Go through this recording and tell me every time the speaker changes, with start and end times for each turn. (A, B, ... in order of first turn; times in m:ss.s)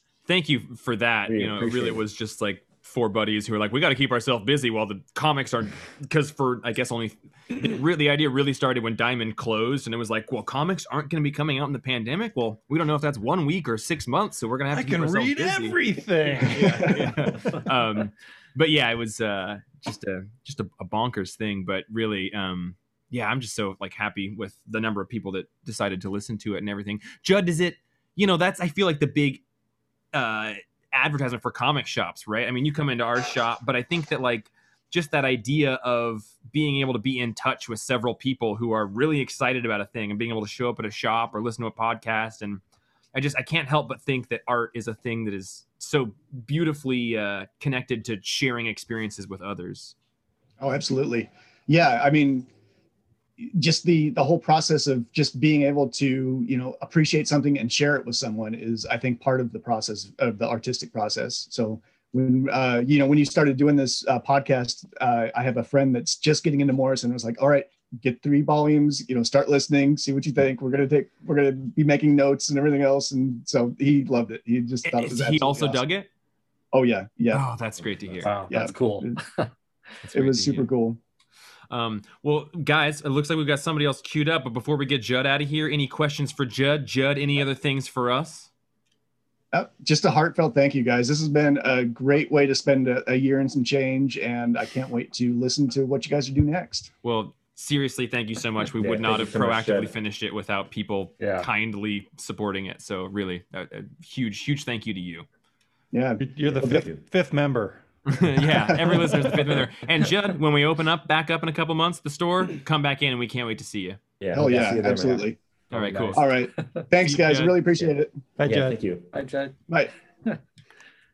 0:00.3-0:29.4 A
0:01.3-0:02.0 B
0:14.7-0:17.3 C
0:30.1-0:42.6 A
0:43.1-0:50.0 A
0:50.6-0:52.5 D
0:53.4-1:15.8 D
1:14.8-1:16.1 A
1:16.7-1:17.4 D
1:17.3-1:18.4 A
1:17.8-1:18.2 B
1:18.2-1:19.5 E
1:18.5-1:19.2 D
1:20.1-1:20.7 A
1:20.1-1:21.0 D
1:21.7-1:28.5 A
1:29.5-1:36.9 D
1:37.0-1:45.3 A
1:38.8-1:39.9 B
1:41.2-1:41.5 E
1:45.9-1:46.8 D
1:46.2-1:47.8 C
1:46.6-1:47.0 B
1:48.1-1:54.0 A
1:48.5-1:49.5 D
1:54.2-1:55.3 B
1:54.3-1:55.4 D
1:55.7-1:56.3 A
1:55.8-1:56.0 E
1:56.1-1:58.2 D
1:56.6-1:56.8 E
1:57.0-1:57.6 A
1:58.4-1:58.8 C
1:58.4-1:59.1 B
1:59.1-1:59.6 E